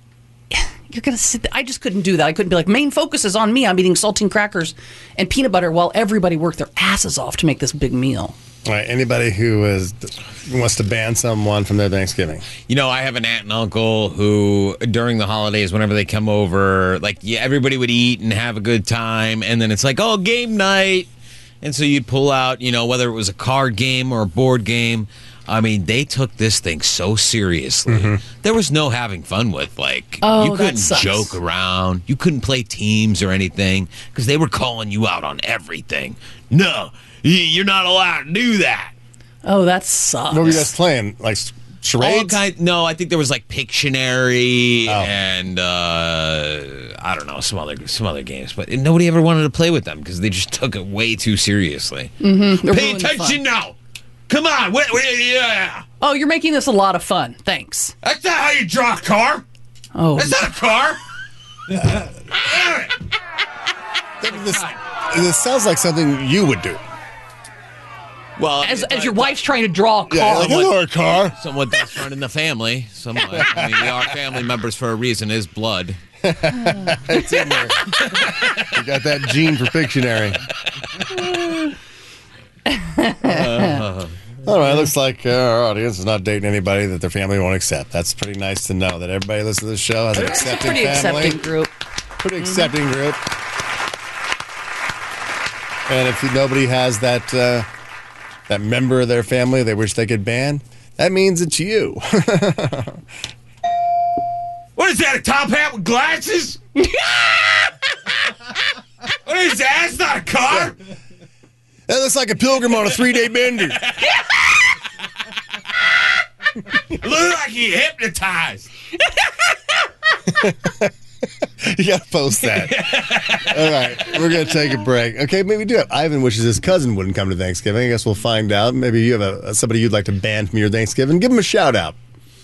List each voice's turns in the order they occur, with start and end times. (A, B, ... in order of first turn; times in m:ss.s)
0:00.5-0:08.4 A
0:08.7-0:12.5 B
0:12.7-0:21.1 C
0:21.6-0:38.9 C
0:27.9-0:28.2 B
0:30.2-0:31.4 A
0:39.4-0:40.7 A
0:40.3-0:42.4 B
0:42.0-0:53.8 C
0:44.9-0:45.2 B
0:52.2-0:53.4 A
0:54.3-0:55.8 C
0:56.0-0:58.0 A
0:58.0-0:59.4 C
1:00.0-1:00.5 A
1:00.2-1:01.0 C
1:01.7-1:03.0 C
1:04.2-1:06.8 B
1:04.2-1:04.8 C
1:08.4-1:09.4 C
1:08.6-1:10.7 A
1:10.1-1:11.4 B
1:10.4-1:16.0 C
1:13.3-1:13.8 B
1:16.2-1:20.4 B
1:22.7-1:23.8 A
1:23.2-1:24.2 C
1:24.4-1:31.4 B
1:30.1-1:31.7 A
1:32.2-1:33.2 B
1:32.4-1:32.7 A
1:35.9-1:37.7 B
1:38.5-1:43.0 B
1:44.8-1:46.6 C
1:49.2-1:50.8 C
1:50.5-1:50.7 B
1:51.9-1:53.8 B
1:53.7-1:54.2 C
1:56.8-1:58.7 C
2:00.3-2:00.9 B
2:01.6-2:02.9 B
2:02.4-2:04.2 C
2:03.5-2:12.0 B